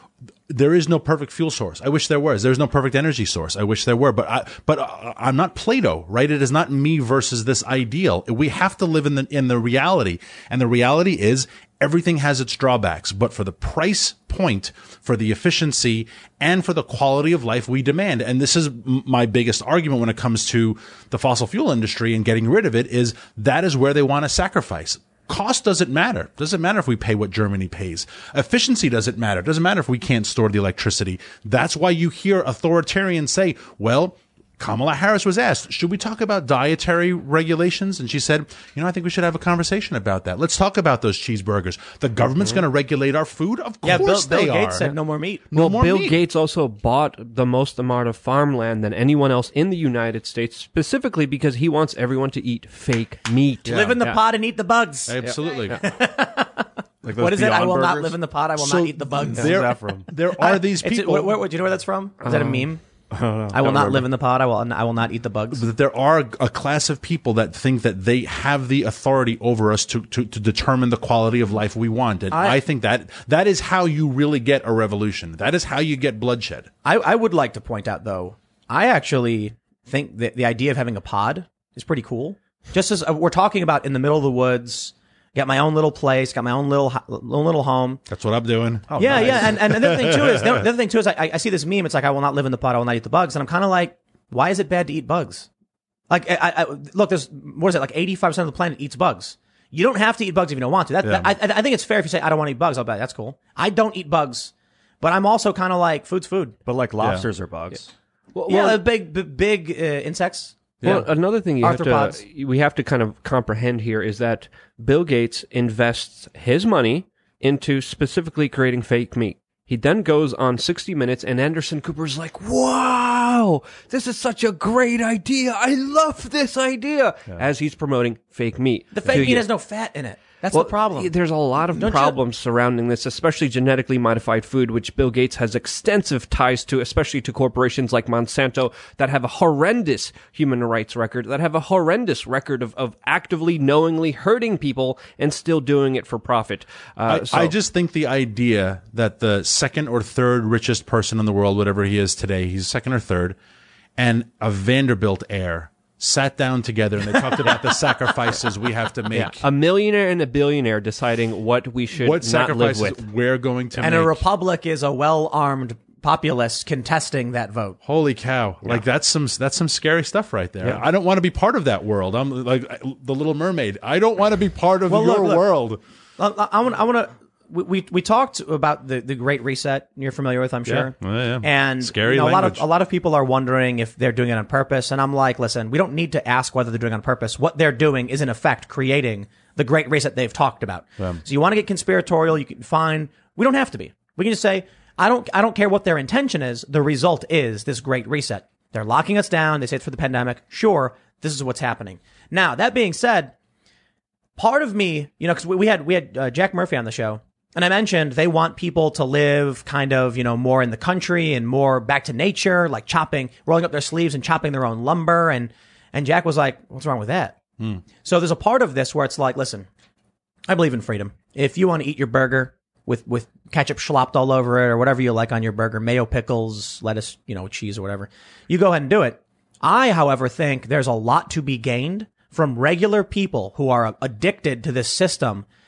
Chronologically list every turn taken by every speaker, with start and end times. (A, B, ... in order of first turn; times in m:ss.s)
0:00.5-0:44.9 A
0:43.8-0:45.4 B
0:45.5-0:46.2 A
0:45.5-0:54.2 C
0:53.6-0:54.0 A
0:53.6-1:02.8 B
0:55.1-0:55.8 A
0:57.0-0:58.2 D
0:58.6-1:01.4 A
0:59.4-0:59.8 D
1:02.2-1:02.7 C
1:03.1-1:04.0 D
1:03.5-1:05.6 B
1:03.6-1:03.9 A
1:05.5-1:16.7 A
1:12.3-1:12.6 B
1:16.8-1:28.0 B
1:28.1-1:30.6 A
1:28.9-1:29.6 D
1:29.0-1:35.5 B
1:36.1-1:46.6 B
1:41.0-1:41.3 A
1:46.6-1:47.9 D
1:48.3-1:48.8 C
1:48.4-1:50.6 B
1:50.8-2:09.4 C
1:51.6-1:52.2 B
2:08.9-2:11.1 B
2:10.5-2:27.5 C
2:11.7-2:12.2 B
2:27.1-2:33.4 A
2:34.0-2:39.4 A
2:39.1-2:43.0 C
2:42.0-2:44.2 A
2:43.8-2:47.8 B
2:47.8-2:55.8 A
2:54.9-2:55.4 B
2:56.2-3:23.3 B
3:00.6-3:02.6 A
3:24.4-3:37.4 B
3:38.0-3:39.7 B
3:40.5-3:55.4 B